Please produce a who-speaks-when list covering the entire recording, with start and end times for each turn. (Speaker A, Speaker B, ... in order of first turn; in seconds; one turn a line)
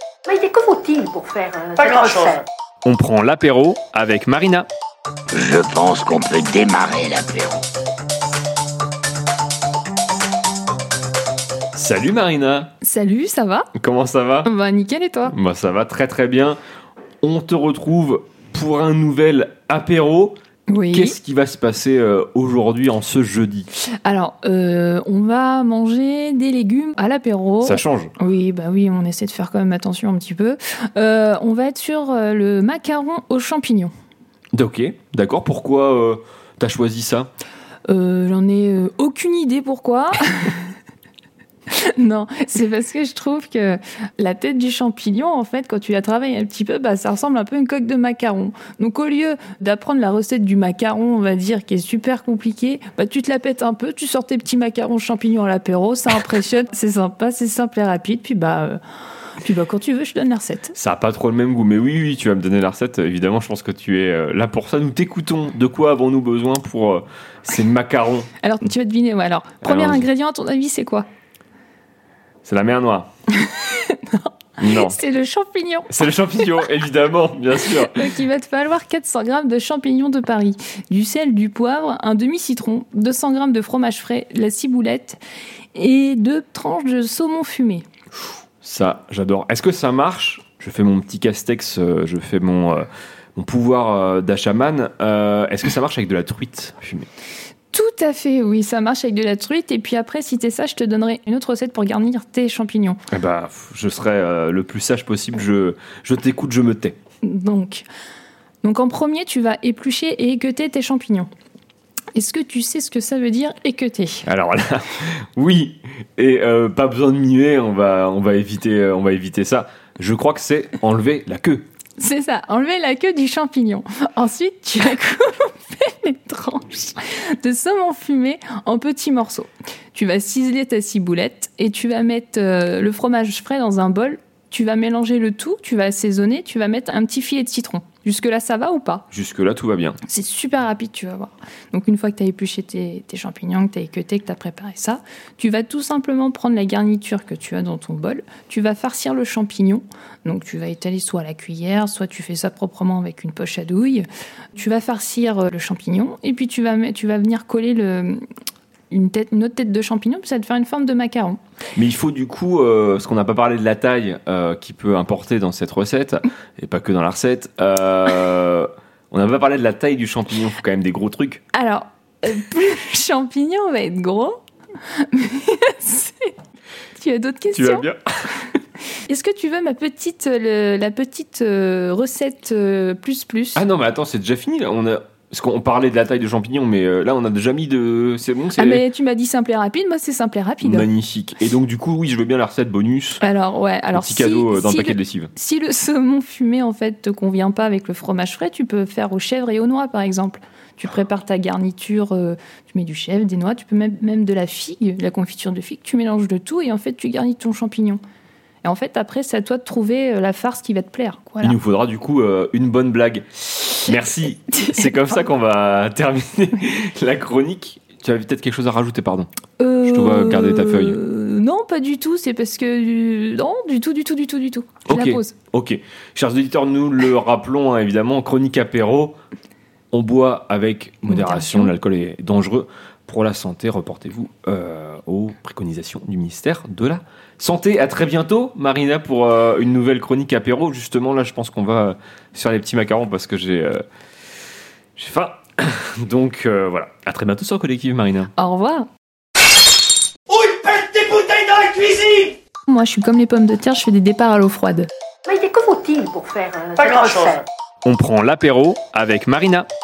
Speaker A: 0.3-2.4
Speaker B: 2.8-4.7
Speaker C: 5.3-7.6
Speaker B: 11.7-12.7
Speaker D: 12.8-13.7
Speaker B: 13.8-14.5
Speaker D: 14.4-15.3
Speaker B: 15.3-16.6
Speaker B: 17.2-20.4
Speaker D: 20.7-21.1
Speaker B: 20.9-23.7
Speaker D: 24.0-33.9
Speaker B: 27.6-28.1
Speaker B: 34.5-37.3
Speaker D: 37.9-40.7
Speaker D: 41.7-58.8
Speaker D: 59.4-60.7
Speaker B: 60.8-68.3
Speaker D: 68.4-71.1
Speaker B: 69.6-70.1
Speaker B: 72.4-73.1
Speaker D: 73.3-76.0
Speaker B: 74.6-75.0
Speaker B: 75.9-78.2
Speaker D: 77.7-85.2
Speaker D: 85.7-87.8
Speaker B: 88.6-97.1
Speaker D: 97.7-103.0
Speaker B: 103.1-107.0
Speaker D: 107.2-107.8
Speaker D: 108.6-111.3
Speaker D: 112.1-114.2
Speaker B: 114.2-121.7
Speaker D: 122.0-139.0
Speaker B: 139.1-140.0
Speaker D: 140.1-158.2
Speaker D: 158.9-161.4
Speaker B: 161.8-171.4
Speaker D: 171.5-176.3
Speaker D: 176.9-177.8
Speaker B: 177.5-178.3
Speaker D: 179.1-183.6
Speaker B: 183.6-188.8
Speaker D: 188.6-190.9
Speaker B: 190.6-193.2
Speaker D: 193.2-208.0
Speaker B: 193.9-195.3
Speaker D: 208.6-211.6
Speaker B: 211.4-219.3
Speaker D: 219.6-225.3
Speaker B: 219.8-221.0
Speaker B: 224.9-229.2
Speaker B: 229.9-243.8
Speaker D: 231.1-231.7
Speaker B: 245.0-248.3
Speaker D: 248.3-248.9
Speaker E: 250.3-252.4
Speaker D: 252.7-254.9
Speaker A: 255.2-257.4
Speaker B: 257.8-259.7